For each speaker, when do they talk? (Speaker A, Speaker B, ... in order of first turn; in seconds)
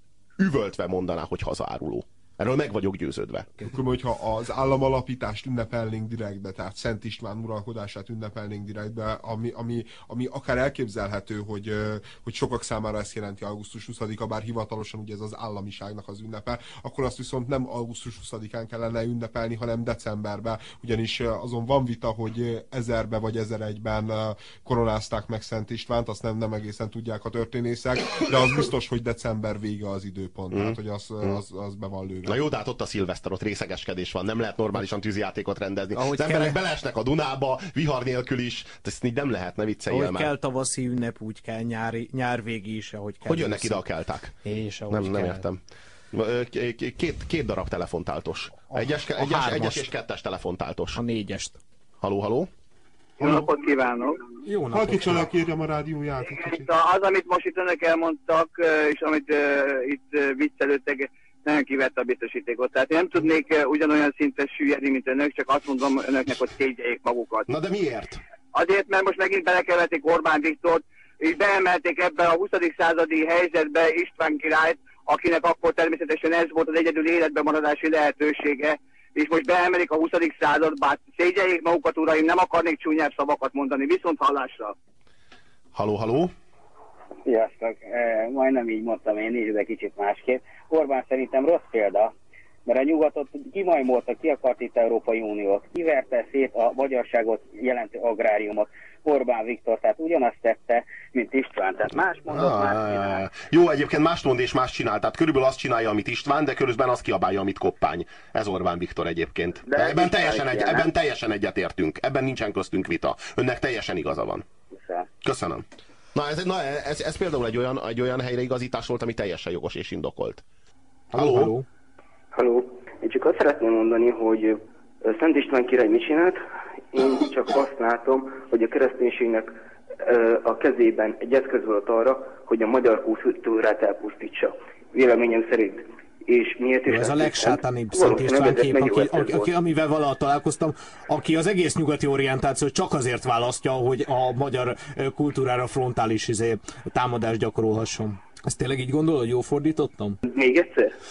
Speaker A: 0.4-3.7, 30.5-31.4, 32.2-40.3, 43.2-44.4, 44.9-45.6, 46.1-51.0, 52.0-52.5, 67.5-68.2, 85.7-86.3, 102.3-114.5, 115.2-120.4, 121.1-121.5
Speaker B: 3.6-32.4, 53.2-53.5, 54.7-56.7
Speaker C: 35.9-36.6, 39.9-43.8, 44.4-45.4, 48.7-49.9, 50.9-51.6, 54.4-55.3, 121.1-121.7, 136.9-150.2
Speaker D: 53.2-54.2, 56.3-67.5, 68.5-84.7
Speaker E: 87.2-92.1, 92.7-103.2, 109.7-110.9, 114.7-115.0
Speaker F: 122.3-126.4, 126.9-139.5, 150.2-150.9